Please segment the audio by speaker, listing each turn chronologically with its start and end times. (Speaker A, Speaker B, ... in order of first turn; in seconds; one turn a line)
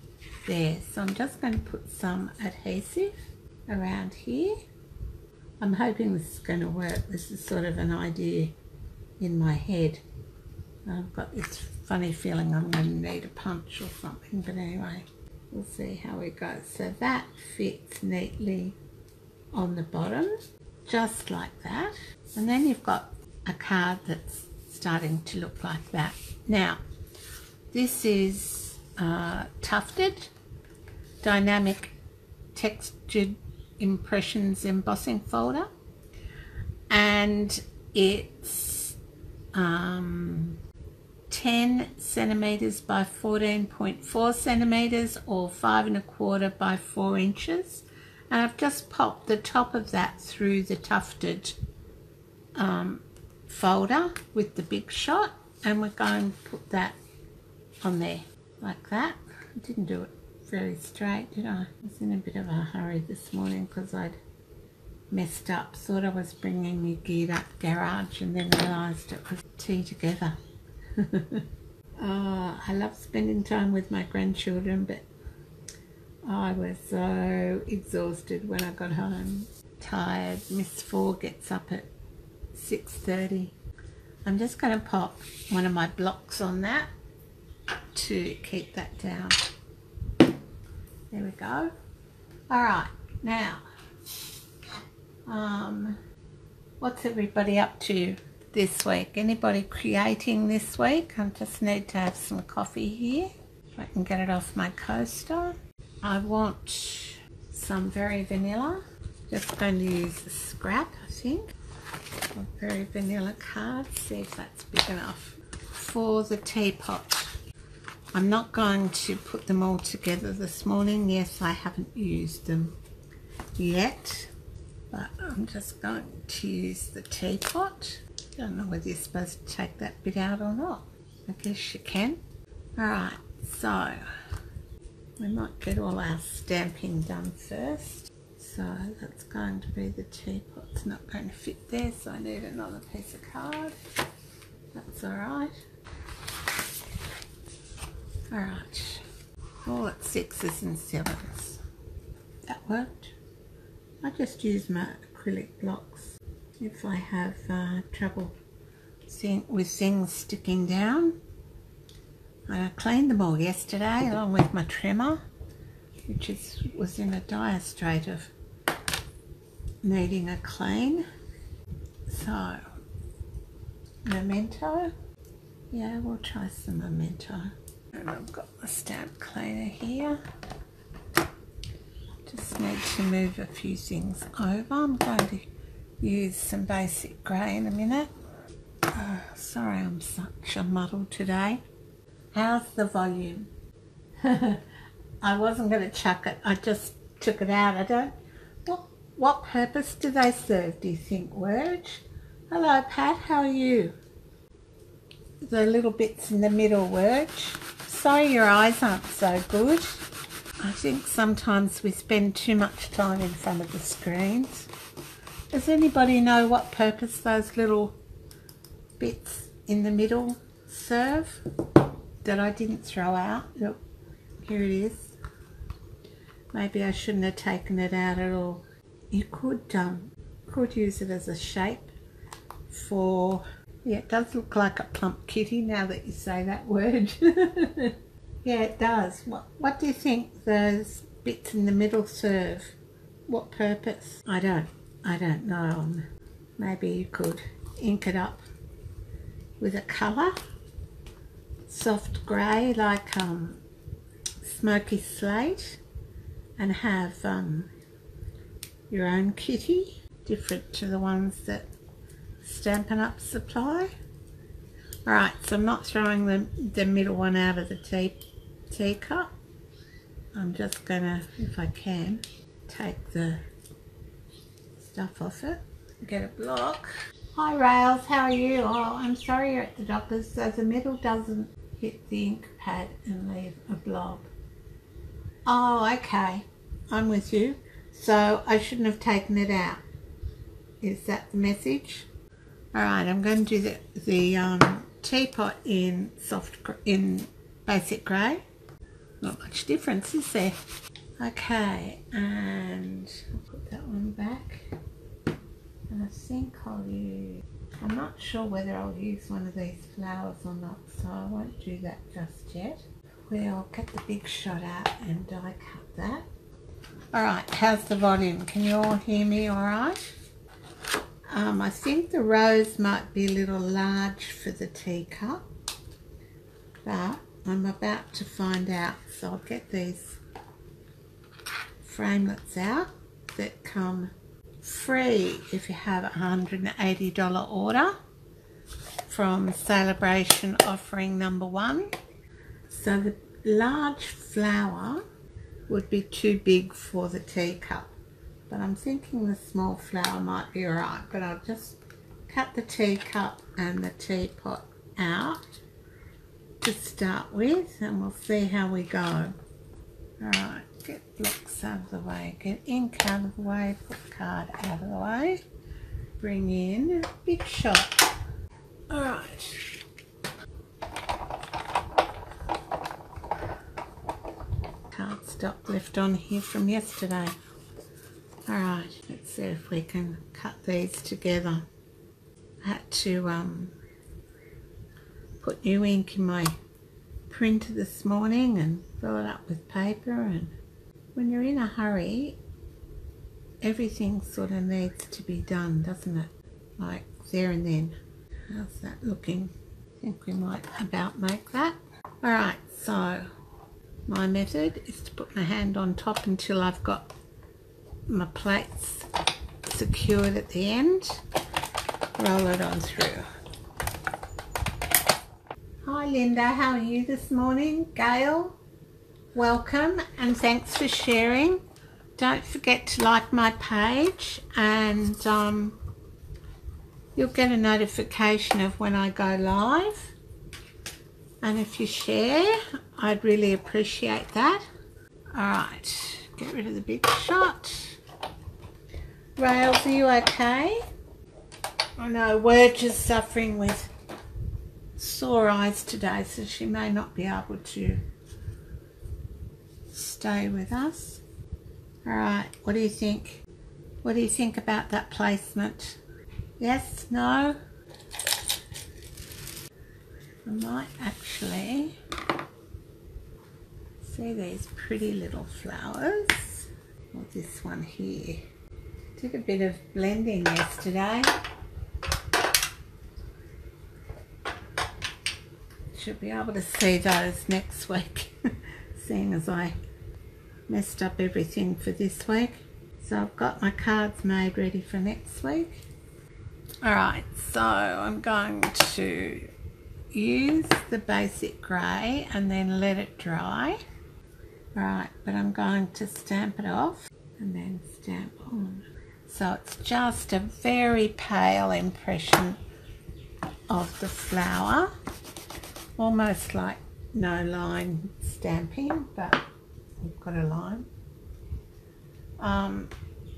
Speaker A: 0.5-3.1
Speaker A: 3.7-4.6
Speaker A: 5.6-8.5
Speaker A: 9.2-10.0
Speaker A: 10.8-18.8
Speaker A: 19.5-26.8
Speaker A: 27.7-30.3
Speaker A: 31.2-31.9
Speaker A: 32.5-35.7
Speaker A: 36.9-39.0
Speaker A: 39.5-40.6
Speaker A: 41.3-51.6
Speaker A: 52.5-57.0
Speaker A: 57.8-64.2
Speaker A: 65.1-70.4
Speaker A: 71.0-71.4
Speaker A: 72.0-75.1
Speaker A: 76.2-81.9
Speaker A: 82.5-83.5
Speaker A: 84.2-86.9
Speaker A: 87.9-89.4
Speaker A: 91.1-91.7
Speaker A: 92.5-93.6
Speaker A: 95.3-96.0
Speaker A: 96.8-111.5
Speaker A: 112.3-117.3
Speaker A: 118.1-122.8
Speaker A: 123.6-124.3
Speaker A: 124.9-132.2
Speaker A: 132.8-134.0
Speaker A: 135.2-143.7
Speaker A: 144.7-145.5
Speaker A: 148.3-149.0
Speaker A: 149.6-151.6
Speaker A: 152.4-153.1
Speaker A: 154.0-158.3
Speaker A: 159.1-161.2
Speaker A: 162.5-165.2
Speaker A: 166.1-168.3
Speaker A: 169.8-171.0
Speaker A: 172.1-172.6
Speaker A: 174.1-174.9
Speaker A: 175.7-180.2
Speaker A: 182.2-185.4
Speaker A: 186.0-188.1
Speaker A: 188.9-191.6
Speaker A: 192.3-193.5
Speaker A: 194.2-194.6
Speaker A: 195.2-198.1
Speaker A: 198.7-203.9
Speaker A: 205.4-210.0
Speaker A: 210.6-214.7
Speaker A: 215.5-217.9
Speaker A: 219.0-221.4
Speaker A: 222.2-223.8
Speaker A: 224.4-225.2
Speaker A: 226.5-231.9
Speaker A: 232.7-242.8
Speaker A: 243.3-246.1
Speaker A: 246.6-248.4
Speaker A: 249.6-250.3
Speaker A: 251.7-253.6
Speaker A: 254.4-255.8
Speaker A: 256.6-257.7
Speaker A: 258.9-261.7
Speaker A: 262.4-263.9
Speaker A: 265.1-268.2
Speaker A: 268.7-269.3
Speaker A: 270.3-273.4
Speaker A: 274.8-284.3
Speaker A: 285.4-289.8
Speaker A: 290.8-292.1
Speaker A: 292.7-298.4
Speaker A: 299.2-300.6
Speaker A: 301.2-304.7
Speaker A: 305.9-316.2
Speaker A: 317.1-320.0
Speaker A: 321.3-325.4
Speaker A: 326.8-330.2
Speaker A: 331.8-334.1
Speaker A: 334.6-337.9
Speaker A: 339.1-341.9
Speaker A: 342.7-345.0
Speaker A: 345.7-347.9
Speaker A: 348.5-355.4
Speaker A: 356.6-359.3
Speaker A: 360.2-365.4
Speaker A: 366.2-368.1
Speaker A: 368.9-369.8
Speaker A: 374.9-377.3
Speaker A: 378.5-381.6
Speaker A: 382.6-383.7
Speaker A: 385.4-386.5
Speaker A: 387.3-390.5
Speaker A: 391.1-392.4
Speaker A: 393.6-398.0
Speaker A: 398.5-403.3
Speaker A: 404.1-407.1
Speaker A: 408.1-409.1
Speaker A: 409.6-411.2
Speaker A: 412.2-413.2
Speaker A: 415.8-418.6
Speaker A: 419.3-421.6
Speaker A: 422.2-425.8
Speaker A: 427.1-430.1
Speaker A: 431.4-434.6
Speaker A: 435.3-438.0
Speaker A: 439.4-440.8
Speaker A: 442.0-443.9
Speaker A: 444.9-448.0
Speaker A: 449.9-451.2
Speaker A: 452.0-453.4
Speaker A: 454.0-456.0
Speaker A: 456.6-457.6
Speaker A: 460.4-461.9
Speaker A: 464.0-468.4
Speaker A: 469.1-471.3
Speaker A: 475.9-478.3
Speaker A: 478.9-479.7
Speaker A: 480.7-485.8
Speaker A: 486.8-489.5
Speaker A: 490.1-493.8
Speaker A: 494.7-502.6
Speaker A: 503.7-504.9
Speaker A: 506.0-509.4
Speaker A: 510.0-510.9
Speaker A: 512.4-512.9